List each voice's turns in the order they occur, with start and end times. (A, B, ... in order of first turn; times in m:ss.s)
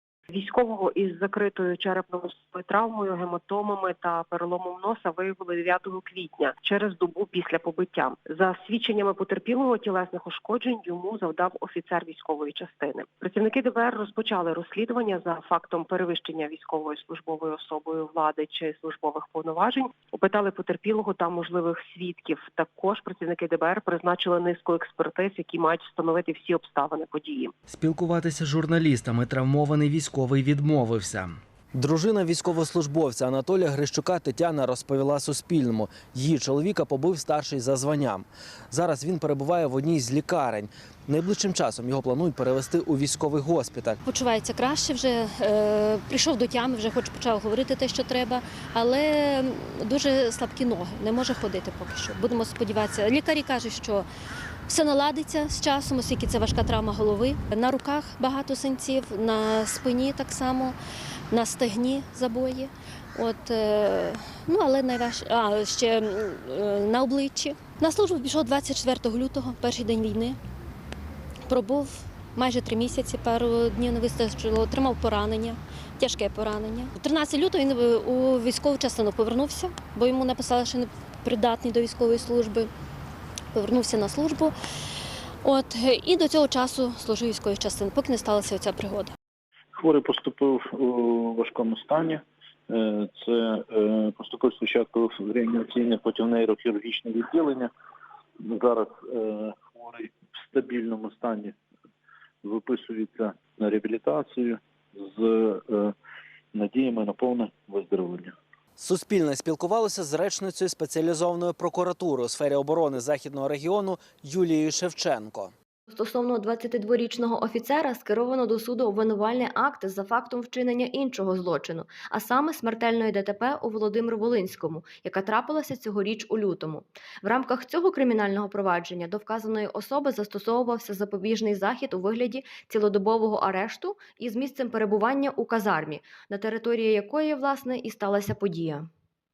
0:00.3-0:27.5 A
0:27.7-0:44.0 B
0:44.0-0:54.0 C
0:54.7-1:00.8 C
1:01.3-1:10.4 C
1:11.5-1:22.7 C
1:23.5-1:24.5 C
1:25.4-1:29.1 C
1:29.8-1:37.7 D
1:38.4-1:41.5 D
1:42.4-1:45.9 D
1:46.5-1:48.3 D
1:48.8-1:55.5 B
1:55.9-2:18.9 E